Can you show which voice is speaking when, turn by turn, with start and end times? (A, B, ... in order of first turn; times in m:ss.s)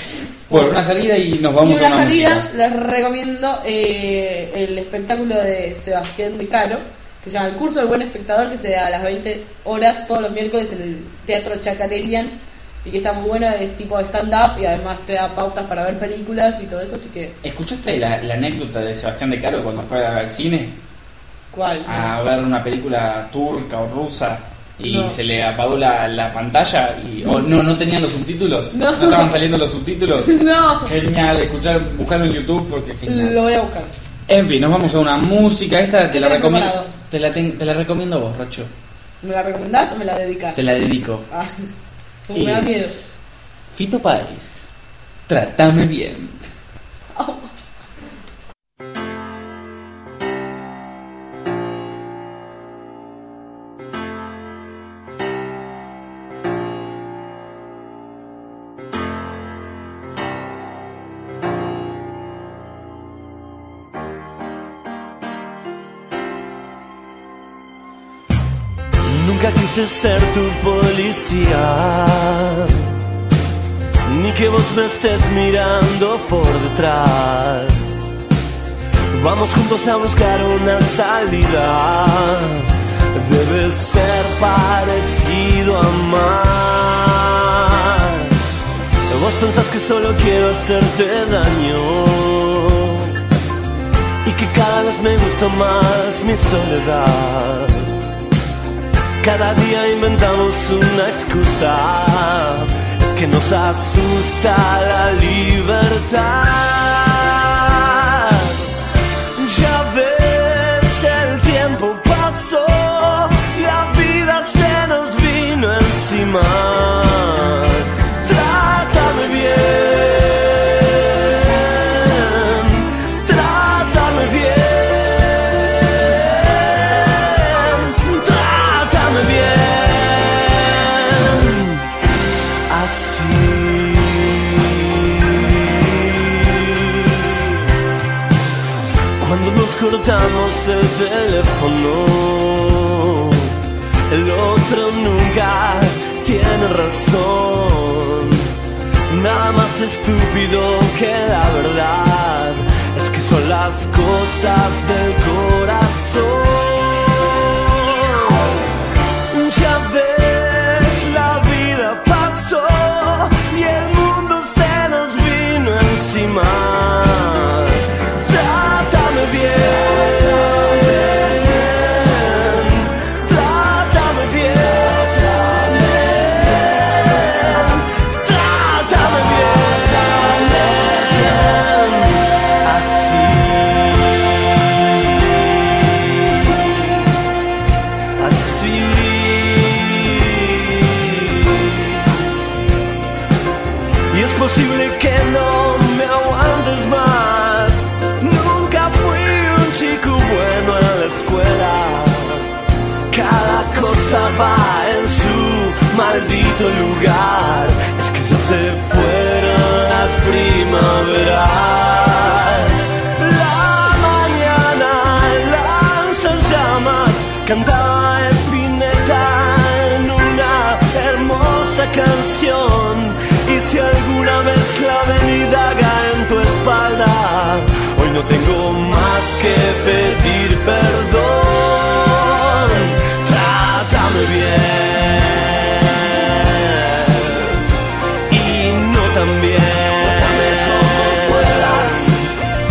0:00.5-0:00.8 A
0:00.5-0:02.5 B
0:01.6-0:17.4 A
0:17.4-0:20.8 B
0:21.5-0:22.1 A
0:21.8-0:33.4 B
0:24.8-0:25.2 A
0:28.7-0:29.4 A
0:30.2-0:30.9 A
0:33.0-0:33.9 A
0:34.3-0:38.7 B
0:36.1-0:36.9 A
0:39.2-0:40.6 A
0:40.5-0:41.2 B
0:41.3-0:41.7 A
0:42.3-0:43.0 A
0:42.3-0:43.1 B
0:43.7-0:44.7 B
0:45.3-0:46.4 B
0:47.1-0:47.5 A
1:09.0-1:12.8 C
1:14.0-1:18.1 C
1:19.1-1:28.3 C
1:29.1-1:33.2 C
1:34.2-1:37.9 C
1:39.2-1:48.7 C
1:49.4-2:11.9 C
2:12.7-2:17.6 C
2:19.2-2:23.5 C
2:24.1-2:28.5 C
2:29.1-2:38.7 C
2:39.3-3:07.1 C
3:08.2-3:12.6 C
3:14.1-3:22.5 C
3:23.1-3:57.6 C
3:58.3-4:02.2 C